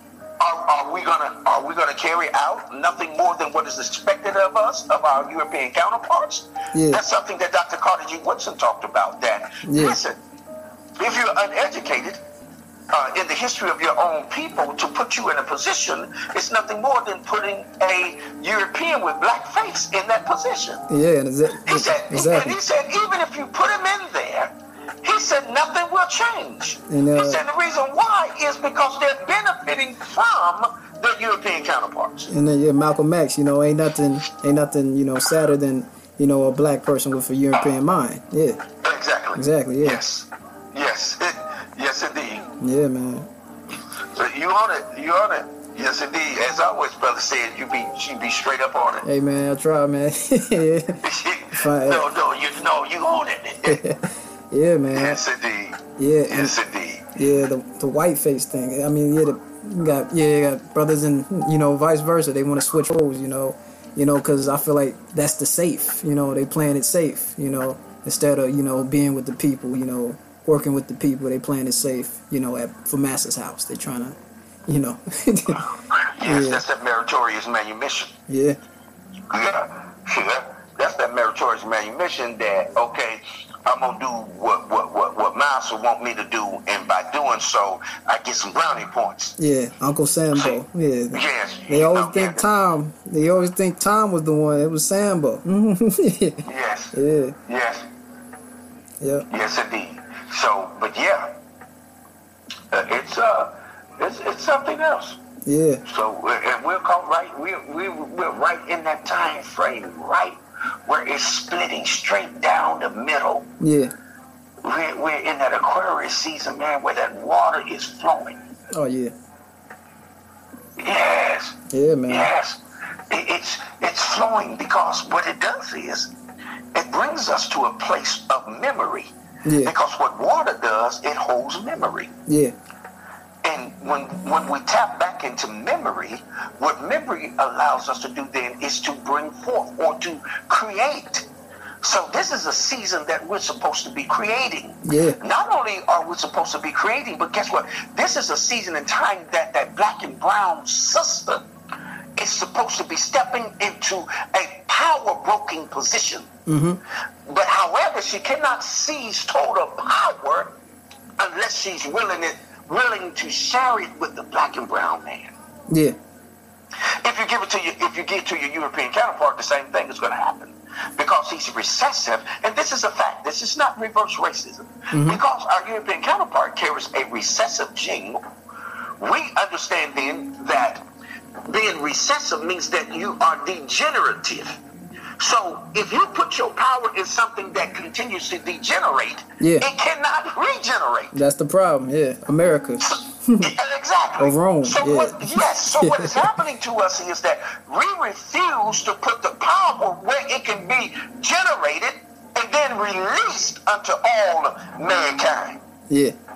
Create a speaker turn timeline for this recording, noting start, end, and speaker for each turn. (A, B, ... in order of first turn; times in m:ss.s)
0:00.4-0:10.2 A
0:06.7-0:07.0 B
0:09.6-0:10.0 B
0:11.0-0:12.2 A
0:12.9-0:20.8 A
0:20.9-0:22.6 B
0:21.6-0:32.3 A
0:26.9-0:27.4 B
0:32.3-0:38.6 B
0:38.8-0:42.5 A
0:39.4-0:40.0 B
0:42.6-0:43.3 B
0:44.1-0:49.1 A
0:49.0-0:52.1 B
0:51.0-0:53.8 A
0:53.6-0:55.2 B
0:54.9-0:57.1 A
0:56.0-0:56.6 B
0:57.1-1:15.7 B
1:15.6-1:18.1 A
1:16.2-1:16.6 B
1:18.3-1:18.6 B
1:19.3-1:29.4 A
1:29.4-1:37.4 B
1:30.3-1:30.6 A
1:31.1-1:32.4 A
1:36.4-1:37.9 A
1:39.0-1:39.3 B
1:39.3-1:41.4 A
1:42.7-1:45.2 A
1:45.4-1:45.8 B
1:45.8-1:53.5 A
1:53.6-1:53.9 B
1:54.6-1:58.4 A
1:58.7-1:59.1 B
2:00.8-2:06.1 A
2:01.7-2:02.3 B
2:06.7-2:12.1 A
2:09.4-2:09.7 B
2:12.3-2:12.5 B
2:13.4-2:21.3 A
2:21.8-2:31.4 A
2:24.8-2:25.2 B
2:32.2-2:36.3 A
2:36.5-2:36.8 B
2:37.2-2:40.6 A
2:41.2-2:45.3 A
2:45.7-2:46.0 B
2:46.8-2:58.2 A
2:54.9-2:55.2 B
2:59.0-3:00.8 A
3:01.4-3:04.6 A
3:05.2-3:11.1 A
3:09.4-3:09.7 B
3:11.1-3:13.5 B
3:12.8-3:25.6 A
3:14.2-3:16.3 B
3:25.9-3:26.2 B